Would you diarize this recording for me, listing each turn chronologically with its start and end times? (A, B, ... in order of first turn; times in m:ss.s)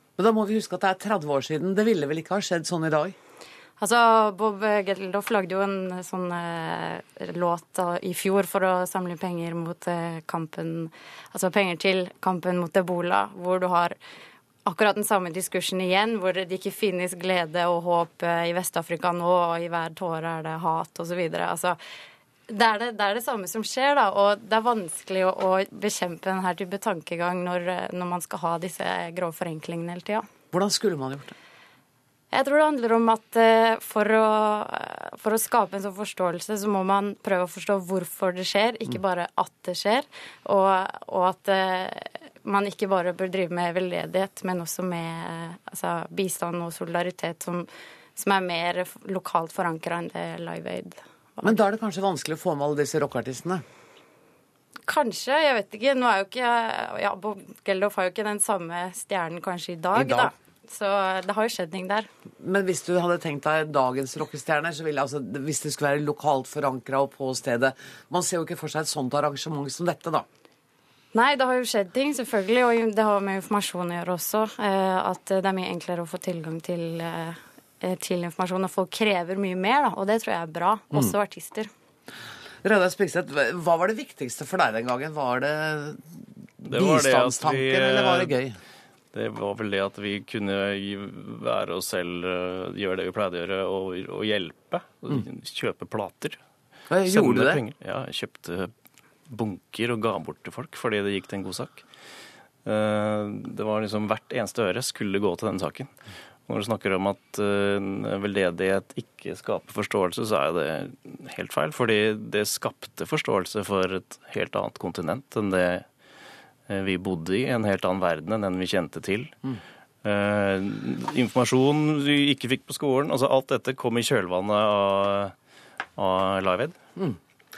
0:00.2-0:03.2 A
0:03.8-0:14.0 B
0:14.7-0:21.8 B
0:22.5-0:30.3 B
0:30.5-0:31.4 A
0:32.3-0:51.6 B
0:51.4-0:53.6 A
0:54.9-1:02.1 B
1:00.0-1:00.3 A
1:02.4-1:10.3 A
1:11.1-1:21.7 B
1:22.6-1:28.6 A
1:26.6-1:28.4 C
1:29.1-1:36.4 C
1:36.9-1:37.6 A
1:37.0-1:38.7 C
1:39.3-1:41.9 C
1:42.6-1:45.9 C
1:46.5-1:55.9 C
1:56.7-1:59.4 C
2:00.0-2:05.3 C
2:06.0-2:06.8 C